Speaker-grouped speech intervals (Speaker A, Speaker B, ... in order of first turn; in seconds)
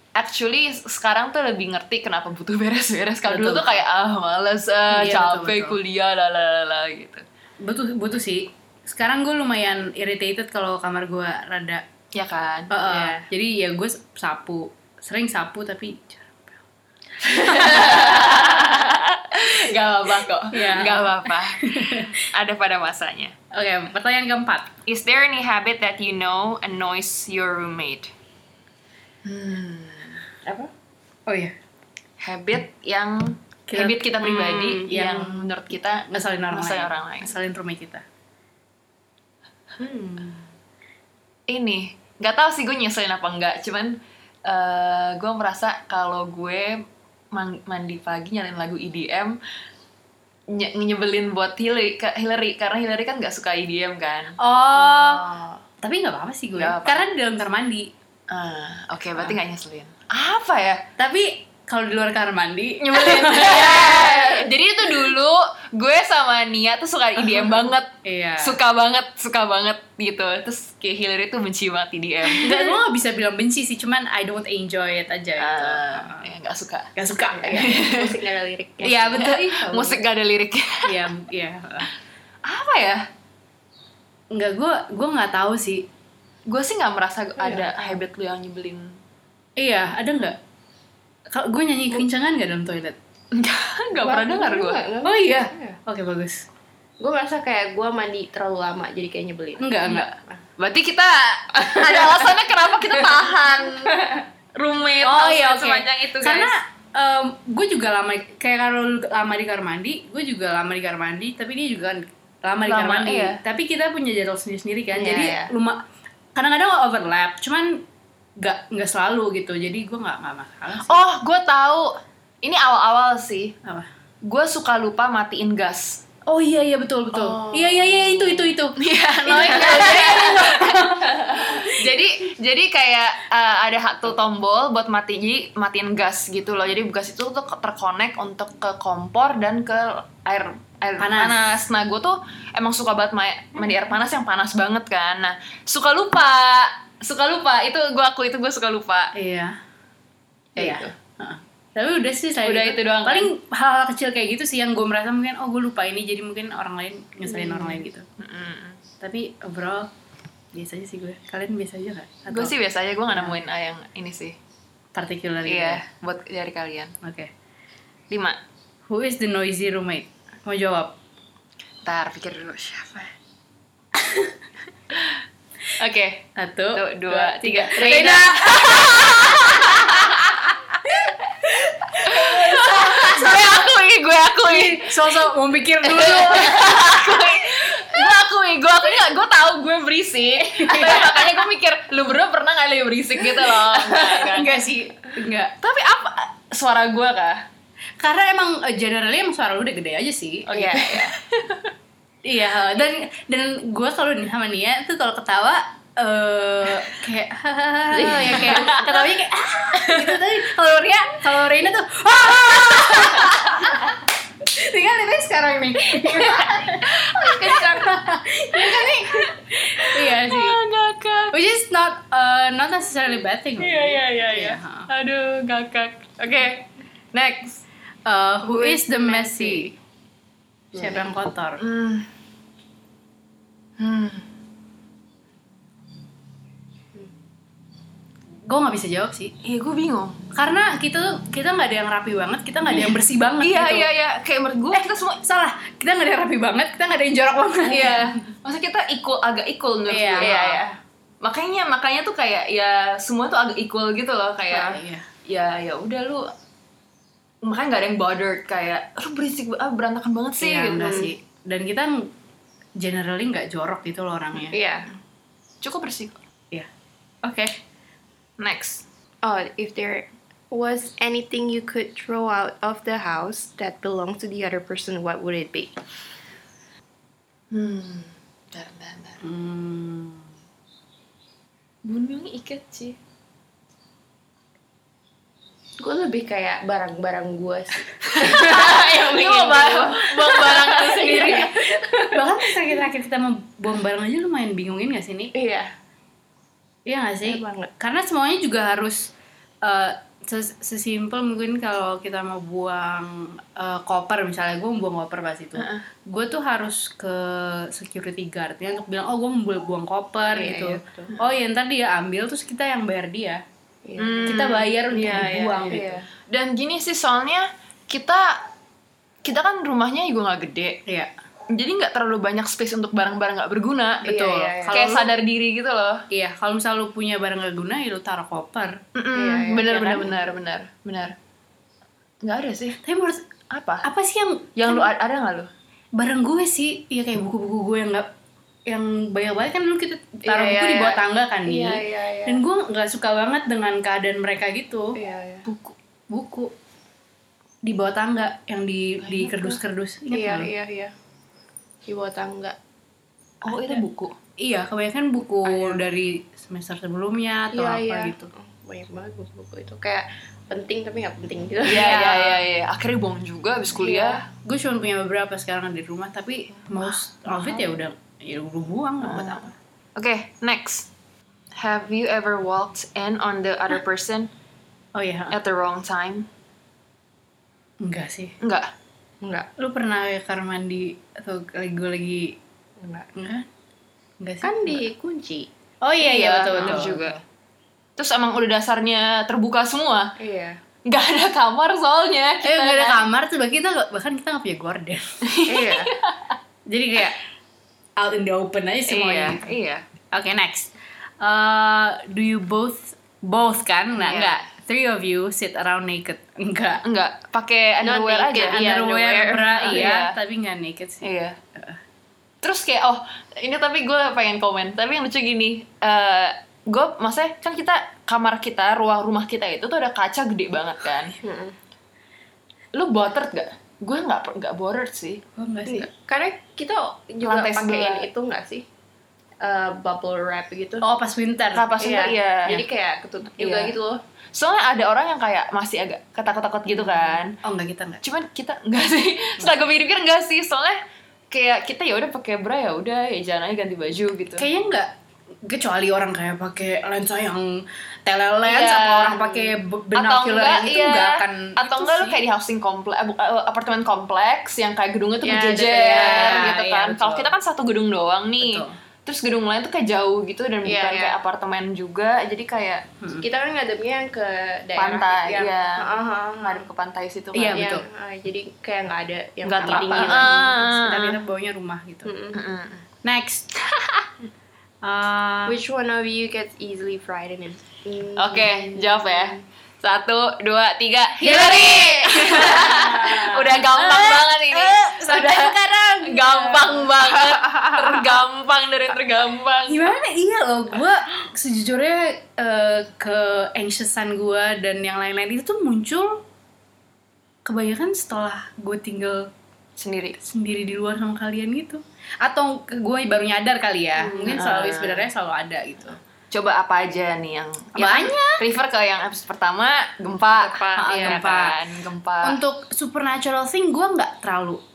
Speaker A: 0.1-7.2, 12.1-12.7, 17.2-23.3, 24.9-28.1, 29.2-30.3, 32.2-37.3, 41.5-49.4, 50.5-54.4, 56.5-57.0, 58.3-60.8, 62.8-72.8, 75.4-76.9, 77.5-78.1, 79.1-81.1, 82.5-83.0, 86.5-89.0, 93.3-94.8, 100.6-106.5, 112.6-113.4, 120.8-123.5, 124.2-126.0, 128.8-149.1, 150.6-150.8, 152.4-153.3, 158.2-158.8, 162.3-164.4, 165.4-166.9, 168.1-168.4, 171.8-173.1, 175.8-180.6, 181.8-185.2, 185.8-194.6, 195.6-197.4, 200.5-201.7, 208.3-209.0, 212.7-213.8, 216.1-217.8, 218.5-221.3, 223.6-227.6, 228.4-229.7, 231.6-232.1, 233.8-234.2, 239.4-240.2, 242.7-245.2, 247.7-250.6, 251.2-256.3, 257.4-261.1, 265.6-266.2, 268.4-268.8, 277.5-279.2, 281.9-283.0, 288.1-291.7, 314.0-314.8, 316.3-318.5, 319.2-320.8, 321.5-324.1, 324.7-326.0, 328.9-331.1, 332.2-332.8, 333.5-333.9, 334.6-335.5, 345.5-345.7, 349.0-349.6, 353.4-354.1, 361.6-364.2, 369.0-370.9, 371.6-374.3, 375.3-376.3, 378.4-378.7, 386.0-387.2, 388.0-390.1, 390.9-393.0, 395.2-396.3, 398.9-399.8, 404.0-404.4, 406.8-410.1, 411.0-411.4, 412.4-421.1, 422.7-425.2, 427.2-428.1, 431.5-432.6, 433.4-433.7, 434.3-437.4, 438.0-444.4, 448.4-462.8, 464.8-467.7, 469.4-471.2, 472.3-472.8, 478.1-489.9, 499.8-500.2, 504.2-505.1, 506.3-512.4
Speaker B: 3.3-3.8, 4.9-5.8, 7.6-11.8, 12.7-16.6, 17.4-18.5, 20.5-22.1, 23.5-24.7, 31.3-31.5, 33.7-35.5, 36.1-38.0, 54.4-55.3, 55.8-57.9, 61.0-64.3, 68.0-68.6, 72.3-76.2, 77.0-77.8, 78.8-80.0, 80.8-81.9, 84.3-85.8, 89.6-90.3, 91.3-93.0, 95.0-96.5, 99.6-100.1, 105.0-115.8, 116.3-117.8, 118.4-121.0, 126.2-131.7, 141.0-141.5, 149.1-149.6, 150.6-158.0, 159.0-159.9, 160.5-162.5, 163.1-163.4, 164.9-165.8, 167.0-167.3, 168.9-170.9, 174.0-174.3, 176.3-179.9, 180.9-183.7, 184.4-187.3, 190.6-191.3, 193.3-195.5, 198.0-200.5, 202.2-220.6, 221.3-224.9, 228.1-229.7, 230.7-231.6, 238.5-239.3, 240.3-243.9, 244.7-248.2, 249.9-250.3, 254.5-255.1, 260.4-262.1, 262.8-264.6, 279.2-280.3, 291.1-291.4, 292.0-295.3, 296.9-299.1, 299.6-313.4, 314.3-316.0, 324.0-325.1, 326.1-328.8, 329.7-330.0, 332.8-333.2, 333.8-334.9, 335.9-338.1, 338.7-345.0, 346.1-346.5, 347.6-350.5, 353.5-353.8, 354.4-358.3, 361.7-362.4, 364.4-369.4, 374.9-375.3, 377.8-378.4, 379.6-382.4, 383.1-383.4, 384.2-384.8, 385.8-387.2, 392.4-395.2, 396.7-397.2, 398.0-399.4, 400.1-406.8, 408.4-411.0, 425.3-425.9, 430.8-431.7, 437.4-438.0, 444.4-444.9, 445.4-452.2, 455.3-457.3, 458.4-458.7, 463.0-463.2, 467.3-467.8, 469.6-472.1, 473.0-473.5, 474.8-475.6, 481.2-486.9, 489.7-496.2, 497.4-499.3, 500.2-506.0, 507.8-508.4, 510.8-511.6, 512.2-514.6
Speaker C: 12.9-13.2, 30.4-30.7, 39.8-40.4, 54.9-55.6, 63.9-64.2, 77.3-79.3, 87.4-88.0, 94.0-95.8, 97.0-100.4, 101.5-102.4, 102.9-103.3, 103.8-104.2, 114.9-115.5, 127.4-127.8, 157.3-157.8, 200.5-201.1, 207.9-208.8, 217.2-218.0, 230.7-231.1, 250.2-250.7, 260.8-261.1, 264.4-264.9, 269.2-275.8, 285.8-292.7, 295.3-295.7, 297.2-297.7, 310.3-311.1, 313.9-316.1, 324.0-324.9, 329.1-330.0, 340.2-342.4, 344.9-345.5, 350.1-350.9, 351.9-352.6, 355.4-355.8, 357.5-362.1, 363.8-364.2, 367.4-367.6, 379.2-379.5, 382.8-383.1, 384.4-385.5, 386.5-386.9, 390.2-390.6, 395.5-395.9, 407.8-409.9, 421.2-421.5, 425.6-428.6, 429.4-430.8, 431.8-434.0, 455.2-456.6, 460.6-461.2, 463.2-466.7, 467.5-470.5, 472.0-472.4, 475.4-479.2, 481.3-482.8, 504.0-504.5, 510.9-511.2